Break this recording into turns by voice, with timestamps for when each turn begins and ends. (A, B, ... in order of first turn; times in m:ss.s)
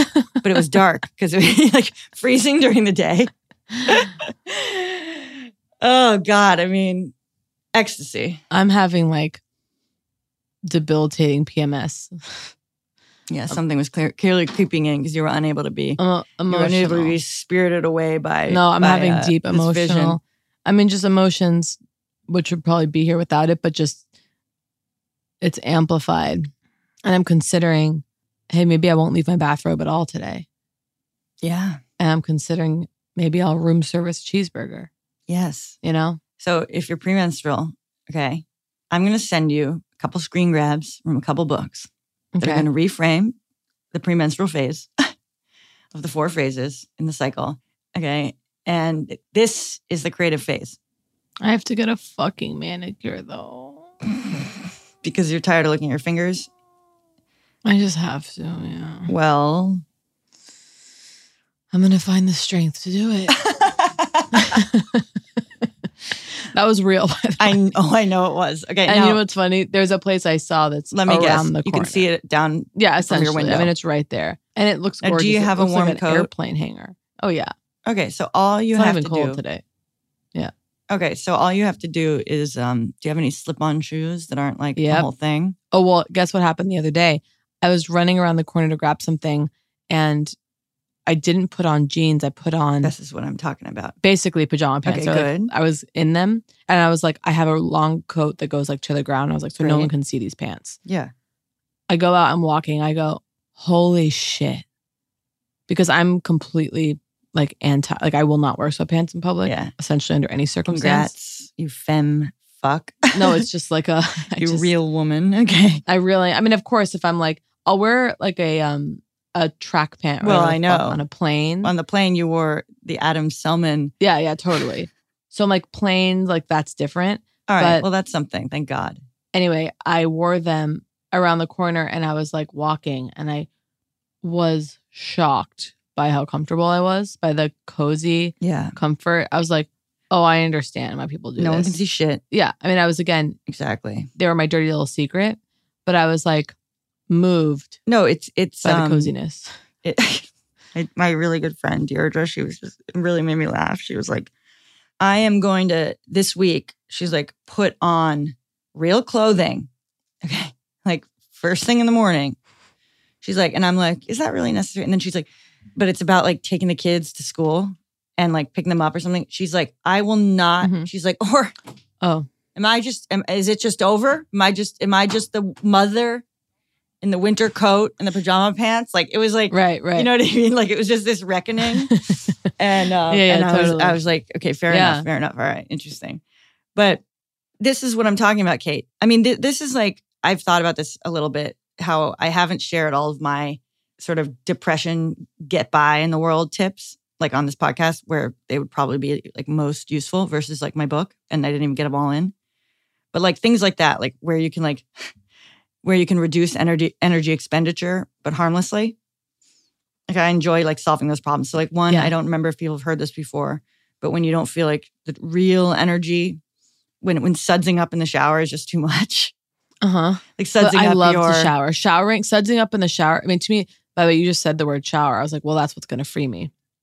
0:00.4-0:03.3 A
0:03.8-0:05.3 A
0:05.8-0:07.1 A
0:07.7-0:08.4 A
0:08.5-0:09.4 B
0:10.6-0:12.5 B
0:13.3-0:20.2 A
0:16.0-0:17.2 B
0:18.5-0:21.8 B
0:22.3-0:24.0 B
0:25.4-0:26.5 B
0:27.0-0:30.4 B
0:31.4-0:31.8 A
0:32.0-0:34.9 B
0:35.3-0:35.8 A
0:35.8-0:36.2 B
0:36.4-0:41.9 A
0:42.3-0:42.7 B
0:42.4-0:43.4 A
0:43.9-0:44.9 A
0:45.9-0:50.8 A
0:51.4-0:53.9 B
0:55.0-0:56.5 A
0:57.6-0:59.1 B
0:59.1-0:59.8 A
1:01.7-1:03.3 B
1:03.4-1:04.2 A
1:04.3-1:05.0 B
1:06.5-1:07.6 B
1:07.4-1:09.2 A
1:08.9-1:12.1 B
1:10.9-1:13.7 A
1:12.7-1:17.5 B
1:15.0-1:16.3 A
1:17.8-1:19.4 A
1:18.7-1:19.6 B
1:20.9-1:25.6 A
1:24.8-1:25.1 B
1:25.7-1:30.3 B
1:31.1-1:32.9 B
1:32.8-1:34.0 A
1:34.0-1:40.8 B
1:34.8-1:35.5 A
1:39.6-1:39.9 A
1:40.8-1:41.1 A
1:41.9-1:44.6 B
1:45.7-1:51.1 B
1:49.4-1:49.7 A
1:50.7-1:53.4 A
1:53.1-1:54.7 B
1:54.4-1:55.8 A
1:55.8-2:01.7 B
2:00.2-2:01.0 A
2:01.6-2:03.9 A
2:04.0-2:07.8 B
2:07.5-2:09.0 A
2:09.3-2:13.5 B
2:14.2-2:23.4 B
2:18.4-2:18.7 A
2:21.4-2:22.2 A
2:23.5-2:24.1 A
2:24.2-2:26.5 B
2:27.1-2:27.8 B
2:27.8-2:29.1 A
2:28.6-2:29.5 B
2:29.8-2:34.3 A
2:35.0-2:39.7 A
2:40.2-2:42.4 A
2:43.2-2:51.5 A
2:50.6-2:50.9 B
2:52.0-2:52.3 B
2:52.5-2:56.2 A
2:57.0-3:01.9 A
2:59.5-3:00.1 B
3:01.9-3:02.4 B
3:02.6-3:06.2 A
3:03.1-3:04.0 B
3:04.7-3:05.1 B
3:06.8-3:07.0 A
3:07.6-3:22.3 A
3:23.1-3:24.9 A
3:25.8-3:28.9 A
3:30.1-3:36.4 A
3:37.0-3:39.3 A
3:39.8-3:46.5 B
3:40.4-3:41.5 A